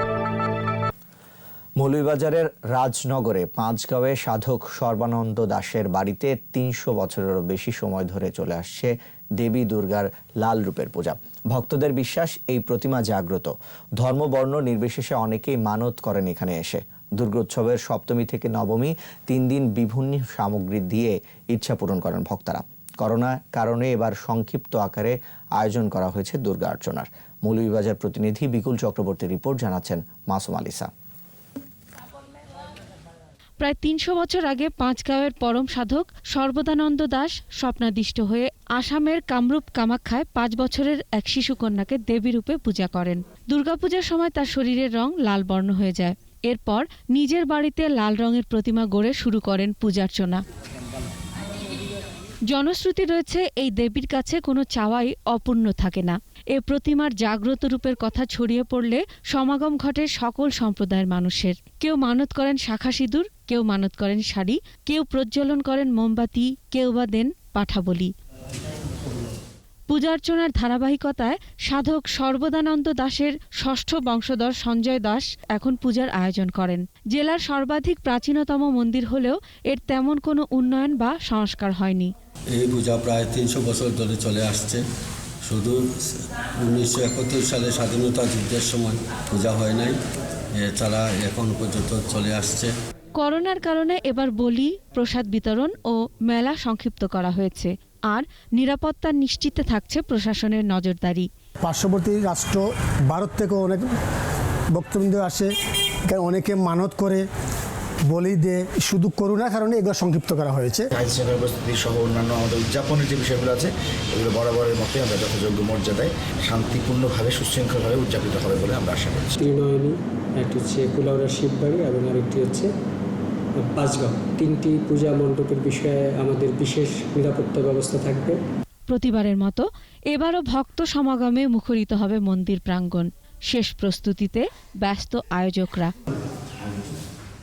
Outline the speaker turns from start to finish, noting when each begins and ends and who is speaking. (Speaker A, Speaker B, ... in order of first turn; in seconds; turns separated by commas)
Speaker A: 1.8-30.9, Speaker B: 33.6-50.4, Speaker B: 52.5-68.1, Speaker B: 69.9-82.1, Speaker C: 82.5-84.8, Speaker C: 85.5-90.0, Speaker C: 90.5-92.7, Speaker B: 93.2-101.3, Speaker D: 101.6-103.9, Speaker D: 104.7-105.5, Speaker D: 106.1-107.2, Speaker D: 108.1-110.9, Speaker E: 111.0-119.3, Speaker F: 119.4-122.7, Speaker F: 123.6-128.4, Speaker B: 128.9-135.9